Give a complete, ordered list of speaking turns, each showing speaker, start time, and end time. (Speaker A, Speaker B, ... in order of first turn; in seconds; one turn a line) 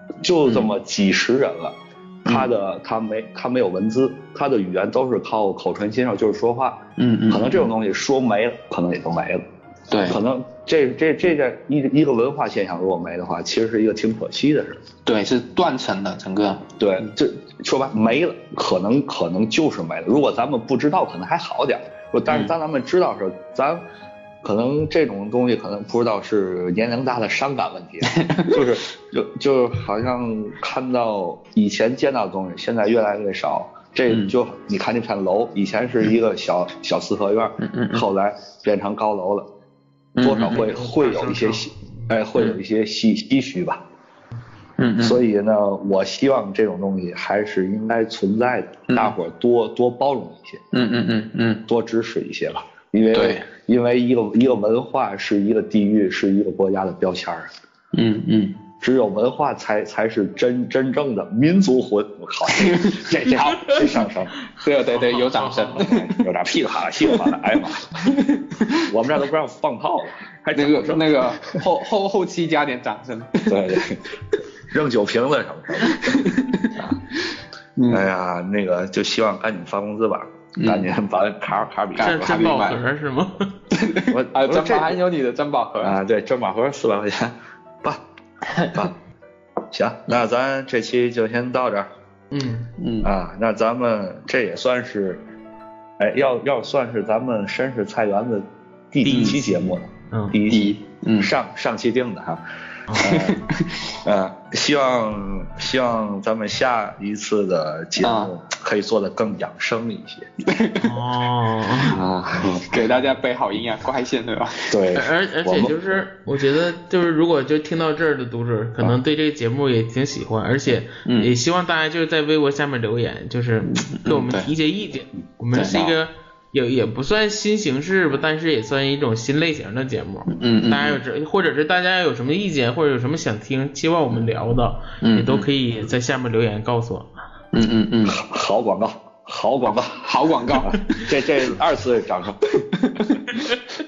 Speaker A: 0.2-6.8
Speaker B: 0.4-0.7
Speaker B: 7.0-7.7
Speaker A: 7.3-9.4
Speaker B: 9.9-10.2
Speaker A: 10.1-14.8
Speaker B: 15.1-17.1
Speaker A: 16.8-23.8
Speaker B: 22.3-22.5
Speaker A: 24.4-39.5
Speaker B: 28.1-28.6
Speaker B: 34.1-34.3
Speaker B: 37.6-38.0
Speaker B: 40.1-40.7
Speaker A: 40.2-43.8
Speaker C: 40.6-42.1
Speaker B: 44.8-45.2
Speaker A: 45.0-50.6
Speaker B: 50.7-51.6
Speaker A: 51.7-57.5
Speaker B: 53.1-53.5
Speaker B: 57.9-58.5
Speaker A: 58.8-64.3
Speaker B: 62.5-63.3
Speaker B: 64.6-66.2
Speaker C: 64.9-65.8
Speaker A: 65.8-67.9
Speaker B: 67.0-67.3
Speaker B: 68.0-68.8
Speaker A: 68.9-71.5
Speaker B: 70.5-73.8
Speaker A: 73.5-74.0
Speaker A: 74.7-76.2
Speaker B: 75.8-78.0
Speaker A: 77.9-82.6
Speaker B: 80.6-80.9
Speaker B: 81.9-82.8
Speaker C: 82.0-83.5
Speaker B: 83.7-86.0
Speaker A: 84.1-85.0
Speaker A: 85.8-88.0
Speaker B: 88.5-88.9
Speaker A: 89.7-91.9
Speaker C: 92.3-92.7
Speaker B: 92.8-93.1
Speaker A: 93.0-95.2
Speaker A: 96.0-102.4
Speaker C: 99.0-100.4
Speaker B: 99.1-99.4
Speaker B: 100.5-101.3
Speaker A: 103.0-103.4
Speaker B: 103.0-103.8
Speaker A: 104.0-110.3
Speaker B: 108.0-108.3
Speaker B: 110.4-111.0
Speaker C: 110.8-112.0
Speaker A: 111.9-112.7
Speaker B: 112.7-114.8
Speaker A: 114.7-115.7
Speaker C: 114.9-137.1
Speaker B: 121.0-121.3
Speaker B: 123.7-124.5
Speaker B: 125.5-125.9
Speaker B: 130.3-131.0
Speaker B: 135.0-135.5
Speaker B: 137.5-138.2
Speaker A: 138.1-142.4
Speaker B: 139.7-141.0
Speaker B: 142.6-143.4